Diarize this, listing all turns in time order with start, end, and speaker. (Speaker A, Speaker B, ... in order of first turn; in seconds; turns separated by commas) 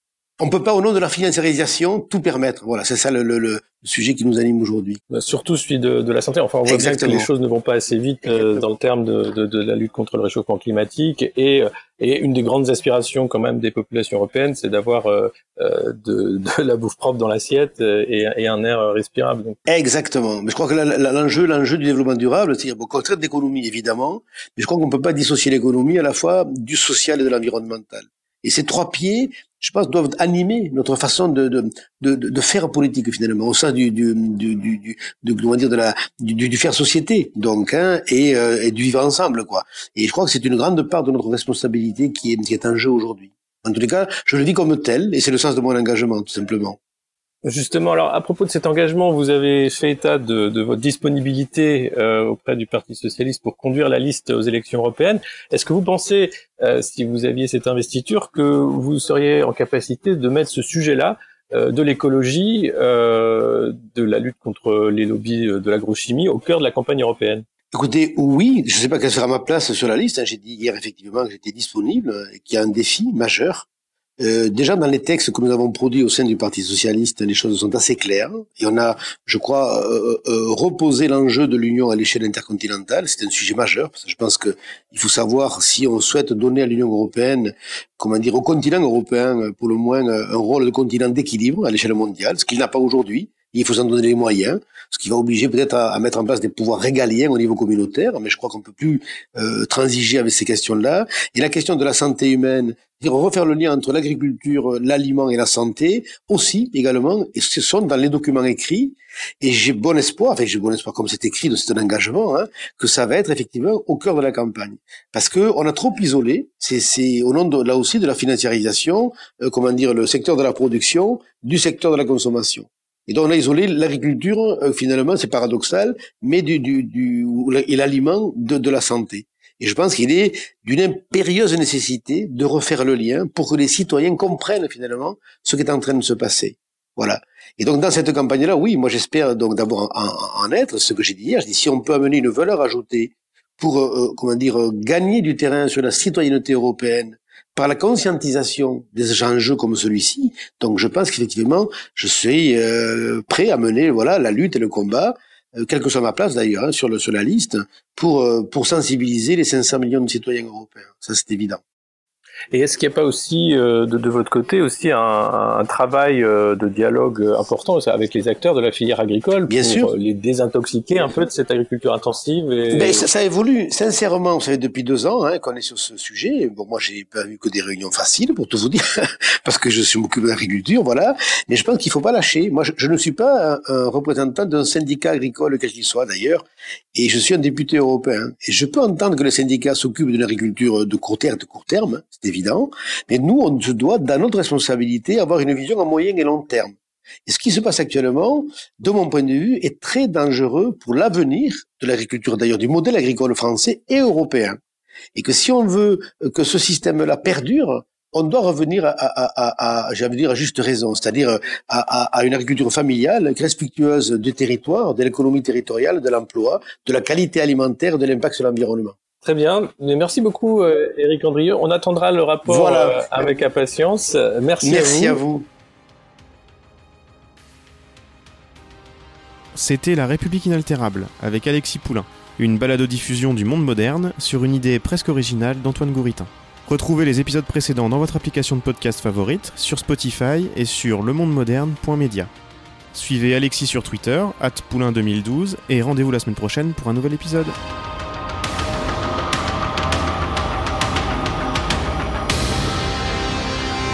Speaker A: 0.4-5.0, Speaker B: 5.1-19.6, Speaker A: 6.7-7.3, Speaker A: 19.7-46.8, Speaker B: 47.5-67.5, Speaker A: 67.7-73.7, Speaker A: 74.2-161.6, Speaker B: 162.5-173.1, Speaker A: 169.5-169.9, Speaker A: 172.7-178.8, Speaker A: 179.4-196.8, Speaker A: 197.3-204.6, Speaker A: 205.2-218.9, Speaker B: 219.2-225.2, Speaker A: 222.4-223.3, Speaker A: 224.6-225.5, Speaker C: 229.6-242.3, Speaker C: 242.9-247.6